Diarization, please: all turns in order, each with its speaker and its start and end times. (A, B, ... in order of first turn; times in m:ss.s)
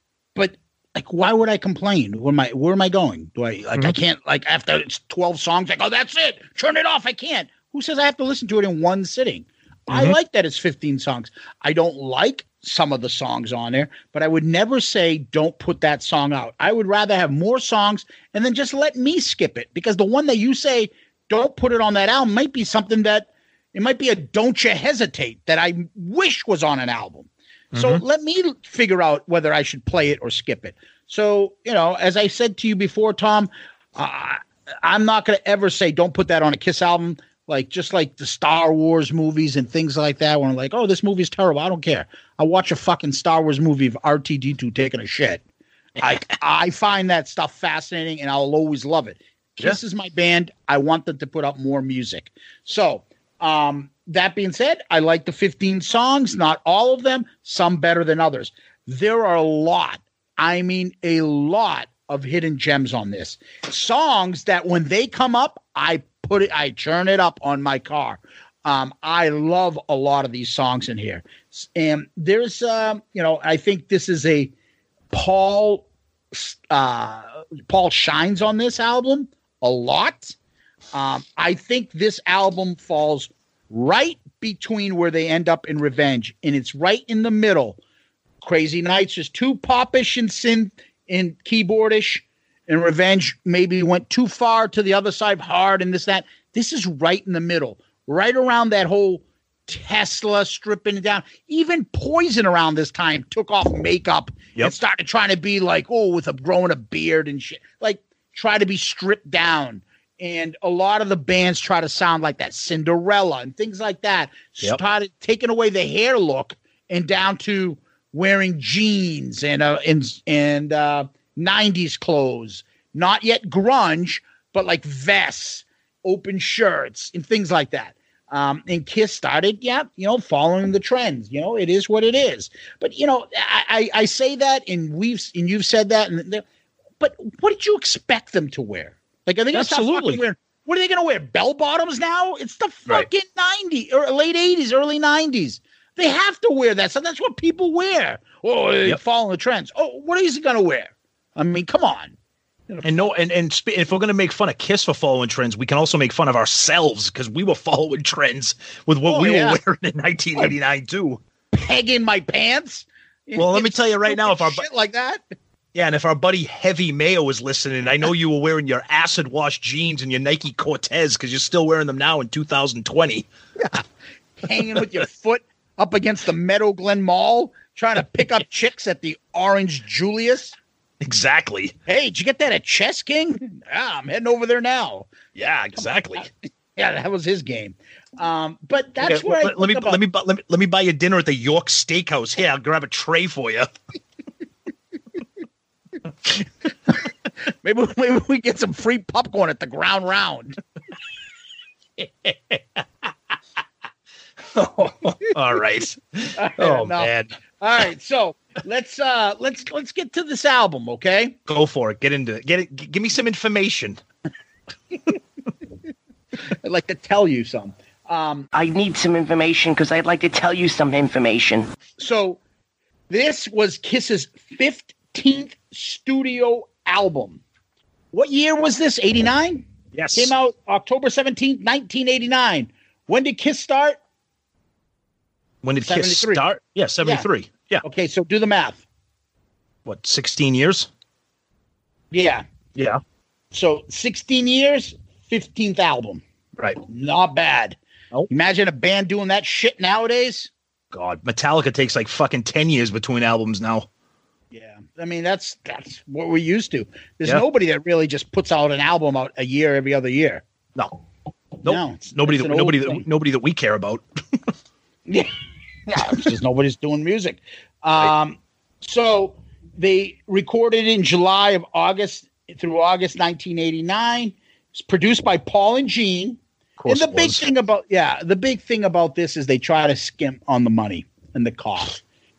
0:00.3-0:45.4 A
0:09.9-0:10.2 B
0:27.7-0:28.0 B
0:46.0-0:46.2 B
0:46.0-1:14.5 A
1:15.1-1:20.3 A
1:20.9-1:27.8 A
1:28.4-2:16.4 A
2:17.0-2:32.1 A
2:19.5-2:20.2 B
2:32.7-2:33.1 A
2:32.8-2:41.2 B
2:39.0-2:39.6 A
2:41.5-2:45.2 A
2:43.4-2:44.6 B
2:45.7-2:53.3 B
2:54.4-3:00.6 A
3:01.0-3:01.7 B
3:01.9-3:05.1 A
3:05.3-3:06.3 B
3:05.8-3:10.0 A
3:09.0-3:13.7 B
3:17.6-3:20.6 A
3:22.0-3:22.8 B
3:24.5-3:27.3 B
3:26.4-3:31.4 A
3:31.5-3:34.0 B
3:36.5-3:38.5 A
3:38.5-3:41.7 C
3:42.0-3:42.4 A
3:43.1-3:47.4 A
3:48.1-3:54.0 A
3:49.9-3:50.3 B
3:55.6-3:57.8 B
3:55.8-3:56.4 A
3:57.8-3:58.8 A
3:59.8-4:00.9 B
4:02.1-4:02.4 A
4:02.7-4:03.0 B
4:03.5-4:06.2 A
4:06.8-4:07.8 A
4:08.3-4:10.5 A
4:10.9-4:13.9 B
4:14.5-4:20.4 A
4:21.6-4:24.0 B
4:21.6-4:23.0 A
4:25.9-4:42.0 A
4:36.8-4:37.5 B